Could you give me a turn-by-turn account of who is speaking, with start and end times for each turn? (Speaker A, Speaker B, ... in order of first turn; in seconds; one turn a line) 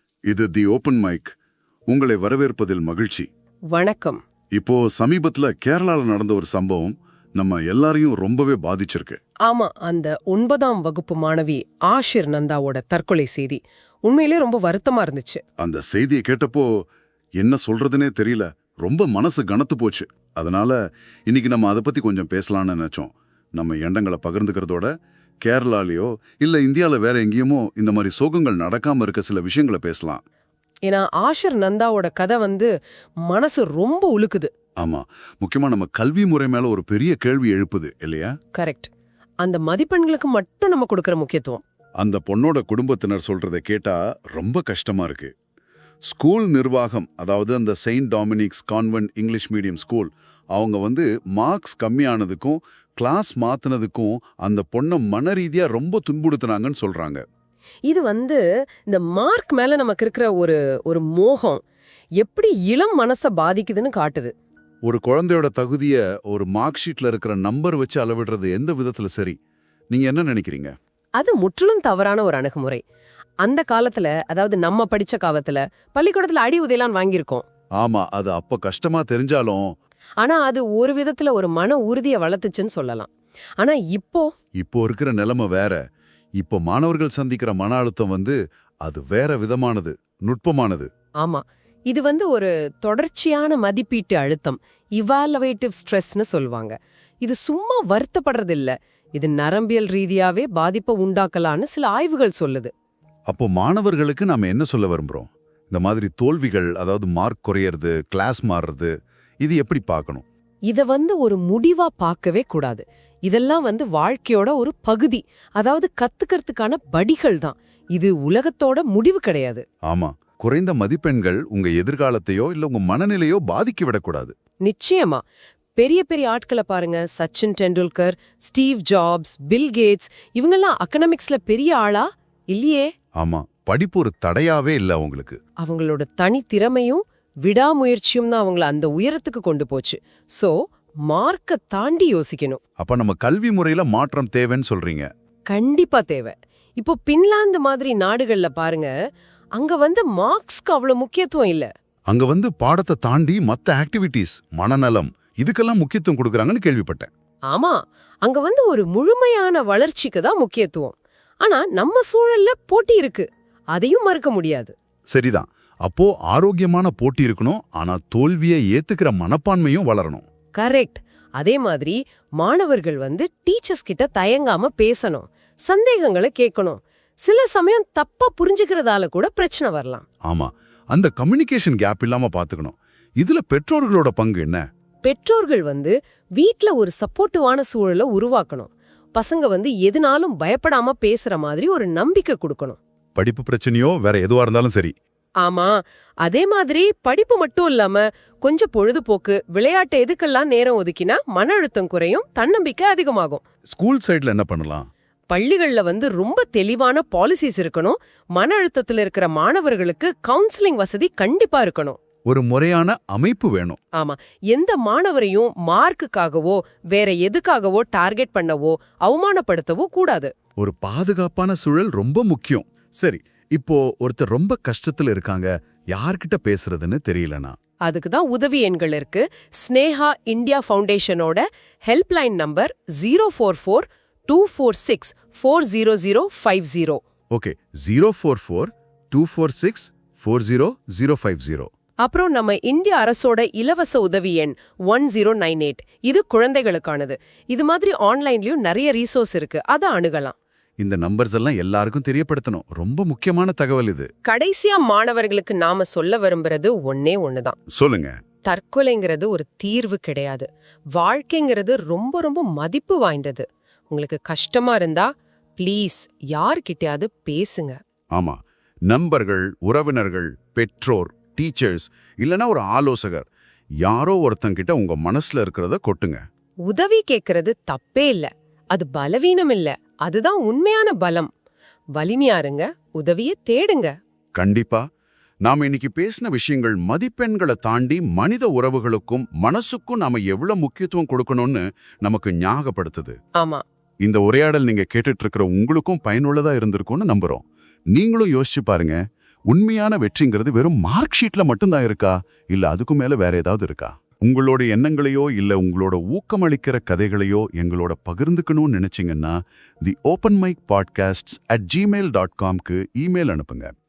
Speaker A: 0.3-1.3
Speaker A: 1.9-3.3
Speaker B: 3.7-4.2
Speaker A: 4.5-9.2
Speaker B: 9.4-15.4
Speaker A: 15.6-16.7
Speaker A: 17.4-24.9
Speaker A: 25.4-30.2
Speaker B: 30.9-32.7
Speaker B: 33.2-34.5
Speaker A: 34.8-38.3
Speaker B: 38.5-38.9
Speaker B: 39.4-41.6
Speaker A: 42.0-45.3
Speaker A: 46.1-57.2
Speaker B: 57.9-61.6
Speaker B: 62.2-64.3
Speaker A: 64.8-69.4
Speaker A: 69.9-70.7
Speaker B: 71.2-72.8
Speaker B: 73.4-77.4
Speaker A: 77.8-79.7
Speaker B: 80.2-84.3
Speaker A: 84.6-85.8
Speaker A: 86.4-90.9
Speaker B: 91.2-102.7
Speaker A: 103.3-110.2
Speaker B: 110.7-119.6
Speaker A: 119.9-124.3
Speaker B: 124.6-125.2
Speaker B: 125.8-132.9
Speaker A: 133.2-135.4
Speaker B: 135.6-140.5
Speaker B: 141.1-142.6
Speaker A: 142.8-145.1
Speaker B: 145.5-148.9
Speaker B: 149.6-151.7
Speaker A: 152.1-157.1
Speaker B: 157.5-164.7
Speaker A: 165.1-170.2
Speaker B: 170.6-180.0
Speaker A: 180.2-184.6
Speaker B: 185.0-192.8
Speaker A: 193.2-194.9
Speaker B: 195.4-203.4
Speaker A: 203.7-204.9
Speaker B: 205.3-212.0
Speaker A: 212.3-213.8
Speaker B: 213.9-220.3
Speaker A: 220.6-227.6
Speaker B: 227.8-237.0
Speaker A: 237.3-241.7
Speaker B: 242.0-250.3
Speaker A: 250.8-254.1
Speaker B: 254.2-257.6
Speaker A: 257.7-258.2
Speaker B: 258.4-267.8
Speaker A: 268.1-273.3
Speaker A: 273.8-276.2
Speaker B: 276.7-281.3
Speaker B: 281.9-283.9
Speaker A: 284.4-284.8
Speaker A: 285.4-293.2
Speaker B: 293.4-293.6
Speaker A: 294.0-313.7